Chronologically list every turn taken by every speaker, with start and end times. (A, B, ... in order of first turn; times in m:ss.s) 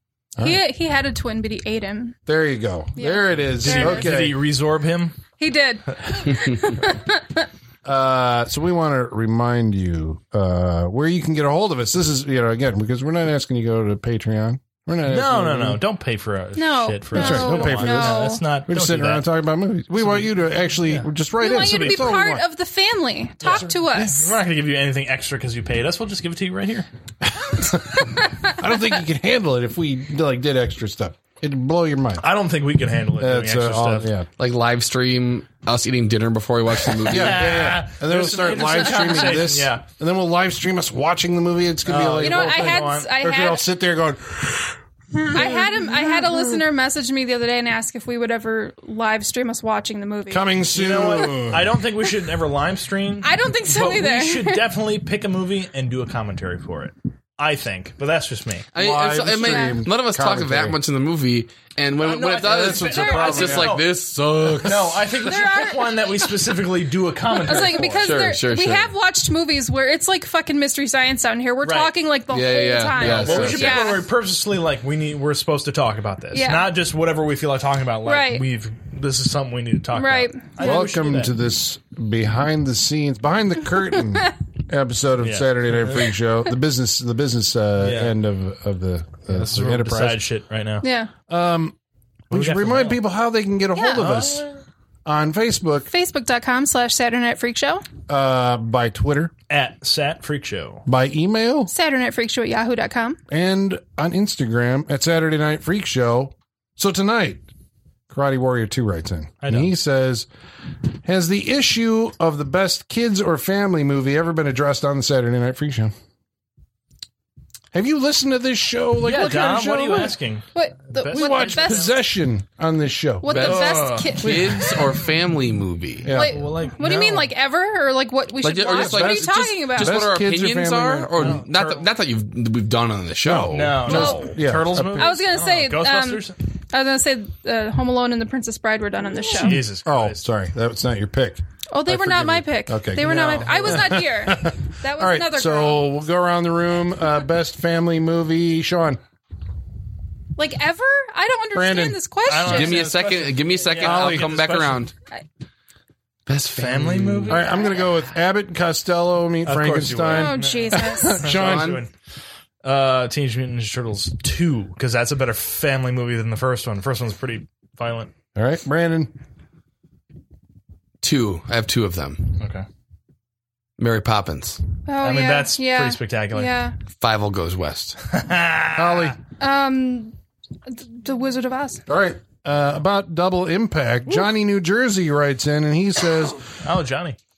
0:00.4-0:02.2 A
0:02.3-0:04.4 B
0:03.0-0:04.1 A
0:03.6-0:05.2 C
0:05.4-0:07.3 A
0:07.8-0:15.8 B
0:15.1-0:19.3 C
0:16.6-0:18.4 A
0:17.1-0:22.4 B
0:20.0-0:20.3 C
0:21.4-0:24.3 A
0:23.4-0:26.9 C
0:23.5-0:24.1 B
0:27.4-0:32.3 B
0:32.2-0:34.1 C
0:33.2-0:34.3 B
0:34.4-0:37.6 D
0:36.9-0:39.8 C
0:37.1-0:46.6 B
0:41.9-0:43.1 C
0:42.2-0:43.6 A
0:45.3-0:50.5 A
0:50.3-0:51.8 B
0:50.7-0:58.7 C
0:53.2-0:54.7 A
0:58.7-1:05.2 D
0:58.8-1:00.8 B
0:59.4-0:59.8 A
1:02.0-1:03.9 C
1:02.4-1:03.8 B
1:04.6-1:08.1 C
1:05.2-1:05.9 A
1:07.4-1:14.0 A
1:07.8-1:08.9 D
1:11.6-1:11.9 C
1:12.3-1:13.9 D
1:13.0-1:21.3 C
1:16.3-1:16.7 A
1:18.0-1:18.4 A
1:19.9-1:20.8 A
1:20.6-1:30.2 B
1:25.2-1:26.1 C
1:27.8-1:28.1 C
1:29.3-1:30.9 C
1:30.8-1:31.1 A
1:31.3-1:31.8 B
1:32.3-1:33.0 C
1:32.3-1:34.5 B
1:33.8-1:34.0 A
1:34.0-1:34.6 C
1:35.0-1:35.9 B
1:35.9-1:37.8 A
1:38.1-1:39.3 B
1:39.5-1:40.8 C
1:40.9-1:41.7 B
1:41.7-1:43.2 A
1:43.3-1:47.4 B
1:48.1-1:50.3 B
1:49.4-1:49.7 C
1:51.0-1:55.9 B
1:57.7-2:00.2 B
1:59.0-2:01.9 C
2:00.5-2:01.9 A
2:01.1-2:04.6 B
2:03.2-2:04.8 A
2:03.3-2:06.1 D
2:03.4-2:04.2 C
2:06.0-2:06.4 B
2:06.1-2:10.0 A
2:06.1-2:07.3 C
2:08.4-2:14.0 D
2:08.7-2:11.5 B
2:11.2-2:11.8 C
2:13.2-2:15.2 B
2:13.5-2:16.4 C
2:13.8-2:14.4 A
2:14.9-2:19.6 A
2:19.3-2:20.2 C
2:19.4-2:29.0 B
2:21.7-2:25.8 A
2:23.0-2:24.0 C
2:30.4-2:32.9 A
2:31.5-2:32.0 B
2:32.3-2:34.9 C
2:32.3-2:34.9 D
2:33.8-2:34.3 B
2:36.3-2:37.5 D
2:36.6-2:37.6 C
2:37.3-2:41.8 B
2:39.4-2:41.9 C
2:40.1-2:41.2 A
2:41.3-2:41.8 D
2:42.6-2:48.1 C
2:48.4-2:49.1 B
2:51.0-2:52.4 D
2:52.4-2:52.7 C
2:53.8-2:54.6 D
2:54.9-2:56.8 A
2:55.0-2:56.5 C
2:57.0-2:58.0 D
2:58.0-2:59.2 C
2:58.8-2:59.2 B
2:59.4-3:00.2 A
3:00.7-3:01.8 A
3:01.9-3:06.5 B
3:06.6-3:07.2 C